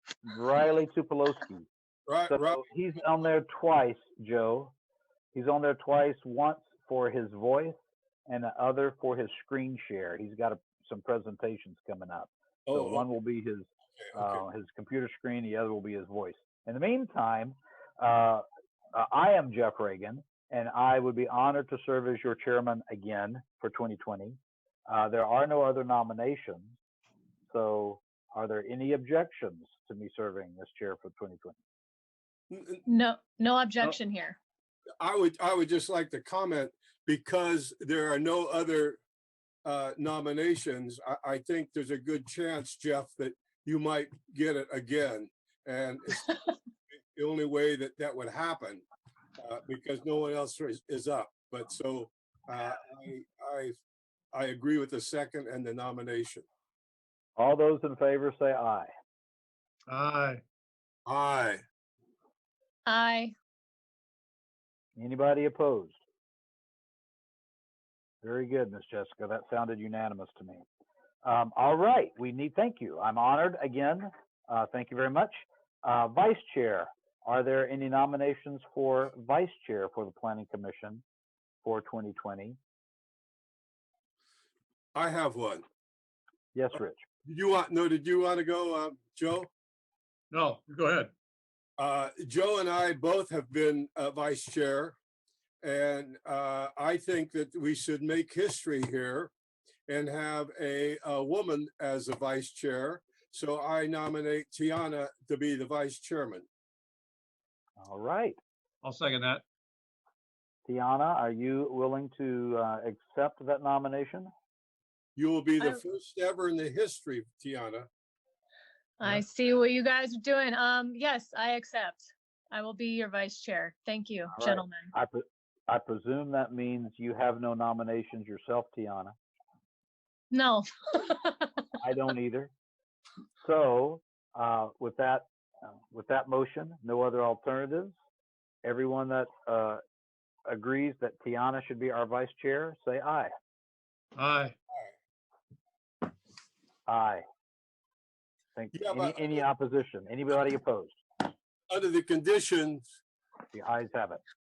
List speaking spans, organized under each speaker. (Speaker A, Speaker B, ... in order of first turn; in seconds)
Speaker A: 0.2-1.7, 2.3-4.7, 5.3-7.8, 8.3-26.8, 27.5-31.6, 57.4-58.9, 65.0-66.0, 68.2-70.6, 71.2-81.0, 81.6-82.6, 86.5-87.0, 107.8-108.4, 110.7-114.3, 124.4-129.2, 131.8-132.5, 133.4-137.9, 138.6-139.8, 140.5-143.3, 146.9-147.2, 148.6-151.0, 153.5-154.2
Speaker B: 2.1-2.7, 12.7-13.1, 14.0-14.4, 32.5-32.8, 35.0-39.0, 39.6-46.4, 47.1-48.8, 49.4-53.8, 54.3-56.5, 61.1-61.6, 85.0-85.6, 87.2-89.5, 91.8-95.0, 95.6-99.3, 99.9-106.5, 115.2-117.9, 148.7-149.4, 151.7-152.9
Speaker C: 32.9-34.4, 62.9-63.4, 119.0-124.9, 130.3-131.7
Speaker D: 59.9-60.4, 90.3-91.1, 108.8-109.4, 144.2-144.6